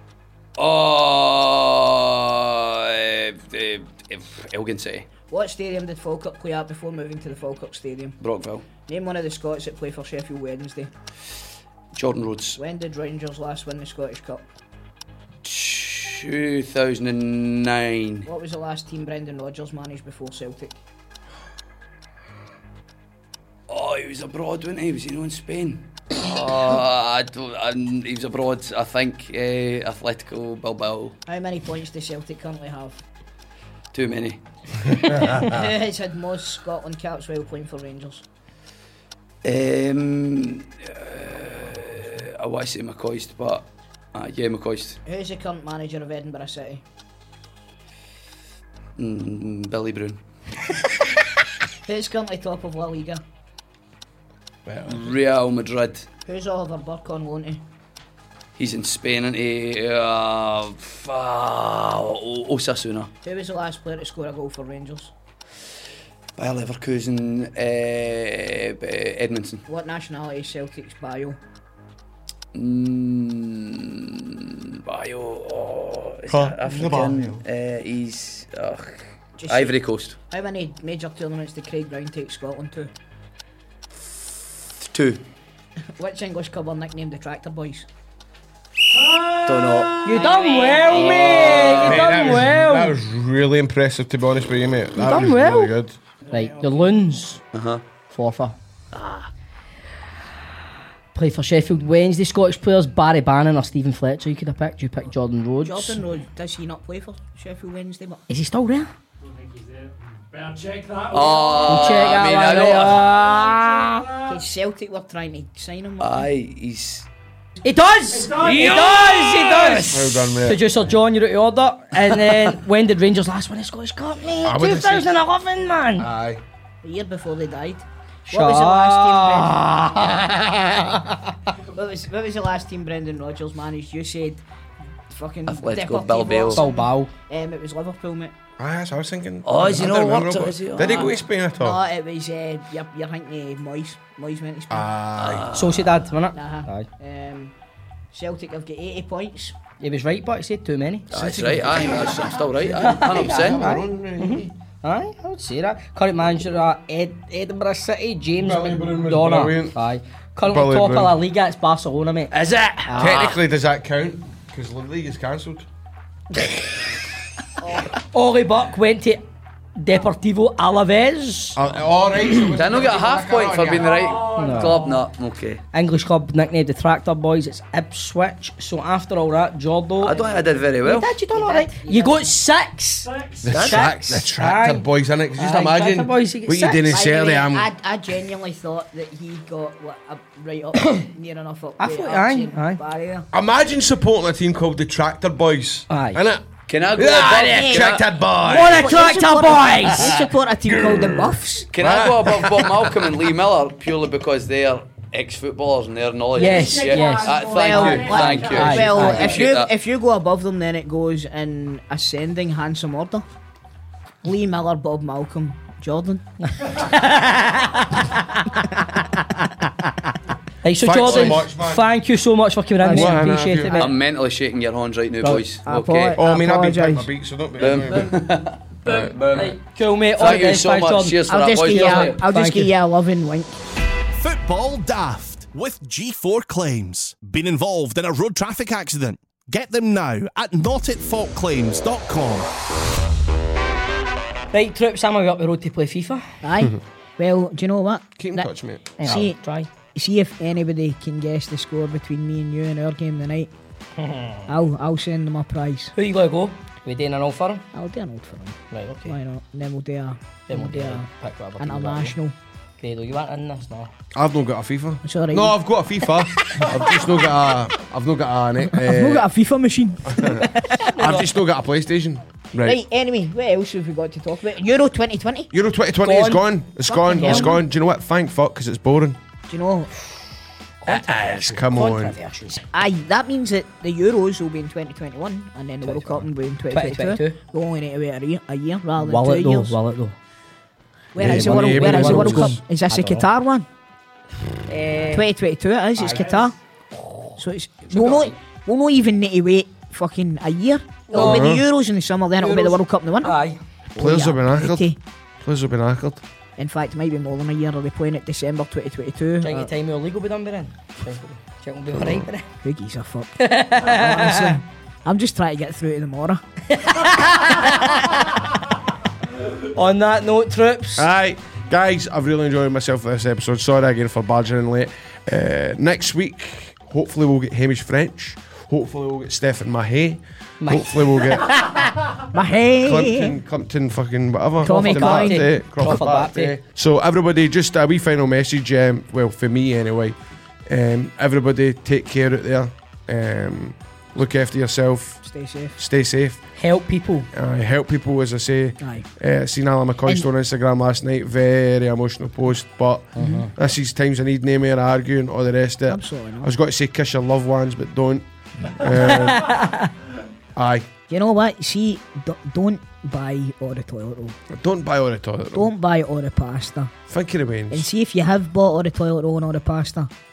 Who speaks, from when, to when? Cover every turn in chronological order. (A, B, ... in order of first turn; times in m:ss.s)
0:00.6-0:05.1 A
0:05.3-0:08.2 B
0:08.2-0:08.7 A
0:08.8-0:10.9 B
0:11.9-0:12.6 A
0:12.6-0:14.5 B
0:15.4-0:18.3 A
0:18.3-0:20.8 B
0:23.7-0:31.2 A
0:31.3-0:33.0 B
0:33.9-0:34.4 A
0:35.1-0:38.2 B
0:39.4-0:45.0 A
0:45.1-0:46.8 B
0:49.0-0:50.2 A
0:51.9-0:53.2 B
0:54.7-0:55.1 C
0:54.9-0:56.1 A
0:56.3-0:57.6 B
0:58.6-1:03.1 A
1:03.2-1:05.1 B
1:06.4-1:09.6 A
1:09.7-1:11.4 B
1:12.5-1:20.2 A
1:16.3-1:17.4 C
1:19.4-1:19.8 B
1:20.3-1:22.9 B
1:24.8-1:25.2 A
1:26.0-1:27.9 B
1:29.0-1:29.9 D
1:29.4-1:30.2 A
1:30.0-1:33.0 E
1:30.8-1:32.2 A
1:31.7-1:36.0 C
1:35.0-1:35.7 E
1:36.3-1:37.4 E
1:37.5-1:37.8 A
1:38.1-1:38.6 E
1:38.9-1:39.3 A
1:41.1-1:46.0 E
1:45.6-1:48.2 B
1:48.3-1:48.9 E
1:49.2-1:52.1 D
1:51.1-1:53.2 A
1:51.6-1:54.0 E
1:53.2-1:54.4 D
1:54.2-1:56.3 B
1:56.0-1:57.1 A
1:57.6-2:06.1 E
1:58.1-1:59.8 D
1:58.4-2:00.1 A
1:59.9-2:00.6 C
2:04.4-2:05.2 C
2:06.0-2:06.4 C
2:06.8-2:10.0 B
2:08.3-2:11.1 E
2:11.7-2:14.4 B
2:15.1-2:18.4 B
2:15.5-2:16.6 A
2:16.5-2:17.1 E
2:18.6-2:21.8 C
2:19.4-2:21.1 A
2:20.8-2:24.9 B
2:24.7-2:25.5 C
2:25.2-2:26.0 A
2:25.5-2:26.9 E
2:26.3-2:27.5 B
2:28.1-2:29.6 B
2:29.8-2:31.1 E
2:31.1-2:33.8 A
2:31.1-2:34.5 C
2:32.8-2:43.4 E
2:38.4-2:39.8 C
2:40.4-2:41.2 C
2:42.3-2:43.4 A
2:43.0-2:45.7 C
2:47.9-2:49.2 E
2:49.8-2:51.6 E
2:51.6-2:54.0 C
2:52.5-2:55.6 A
2:53.6-2:55.1 D
2:54.3-2:54.9 E
2:55.7-3:00.2 E
3:00.0-3:01.1 A
3:00.8-3:06.9 E
3:01.3-3:02.3 B
3:03.0-3:03.7 D
3:03.4-3:07.7 C
3:06.9-3:13.3 B
3:10.8-3:11.1 E
3:11.8-3:12.8 E
3:13.3-3:19.0 C
3:15.9-3:16.2 E
3:16.7-3:18.1 A
3:17.5-3:17.9 B
3:18.4-3:20.2 E
3:18.5-3:21.7 B
3:20.7-3:23.1 C
3:21.7-3:29.7 A
3:26.3-3:29.5 D
3:26.4-3:29.4 E
3:27.4-3:33.2 B
3:34.2-3:36.3 B
3:36.4-3:38.8 E
3:40.6-3:43.7 E
3:40.8-3:41.9 C
3:41.0-3:41.4 A
3:42.8-3:44.0 B
3:42.9-3:43.8 C
3:43.7-3:46.2 A
3:45.7-3:47.1 B
3:46.2-3:48.3 C
3:47.6-3:49.5 A
3:48.9-3:49.2 C
3:48.9-3:52.7 E
3:50.2-3:52.2 A
3:51.3-3:53.5 B
3:54.2-4:02.5 F
4:04.5-4:06.2 E
4:06.4-4:09.4 B
4:08.2-4:08.9 C
4:09.0-4:09.7 E
4:09.9-4:13.5 B
4:14.0-4:14.5 E
4:14.5-4:15.9 B
4:16.0-4:17.7 E
4:17.7-4:21.1 B
4:18.7-4:19.2 E
4:20.5-4:22.2 E
4:21.6-4:22.3 B
4:22.8-4:23.9 E
4:24.2-4:29.3 C
4:25.0-4:25.6 B
4:28.7-4:31.0 B
4:30.1-4:32.8 C
4:30.7-4:31.3 E
4:32.6-4:35.5 B
4:35.5-4:39.2 C
4:36.0-4:36.5 E
4:36.9-4:37.6 B
4:37.2-4:37.6 E
4:39.5-4:40.0 B
4:40.8-4:42.7 E
4:41.1-4:42.2 C
4:42.7-4:49.8 B
4:45.8-4:46.2 E
4:46.7-4:47.4 E
4:49.0-4:50.2 E
4:51.1-4:53.7 B
4:51.2-4:52.6 C
4:51.2-4:53.3 E
4:54.7-4:56.6 B
4:54.9-4:55.2 E
4:56.0-4:56.4 E
4:57.0-4:57.4 E
4:57.4-5:03.4 B
5:01.1-5:01.5 E
5:01.2-5:01.6 C
5:02.4-5:03.6 E
5:04.0-5:05.0 B
5:04.0-5:06.2 C
5:06.6-5:09.7 B
5:09.4-5:12.5 E
5:12.6-5:16.4 B
5:13.4-5:14.6 E
5:16.8-5:18.0 E
5:19.6-5:21.1 E
5:21.0-5:31.6 C
5:30.6-5:31.3 E
5:31.5-5:33.4 B
5:32.8-5:40.2 C
5:34.6-5:36.5 E
5:34.6-5:35.5 B
5:40.7-5:45.2 C
5:45.2-5:45.8 B
5:45.8-5:46.4 C
5:46.6-5:47.3 E
5:47.3-5:59.6 C
5:48.8-5:49.1 B
5:53.2-5:53.5 E
5:53.2-5:53.4 B
5:55.9-5:56.5 B
5:59.0-5:59.9 E
6:00.6-6:00.9 C
6:01.1-6:04.4 B
6:04.5-6:05.7 C
6:05.5-6:06.9 B
6:07.1-6:07.9 C
6:07.7-6:10.1 B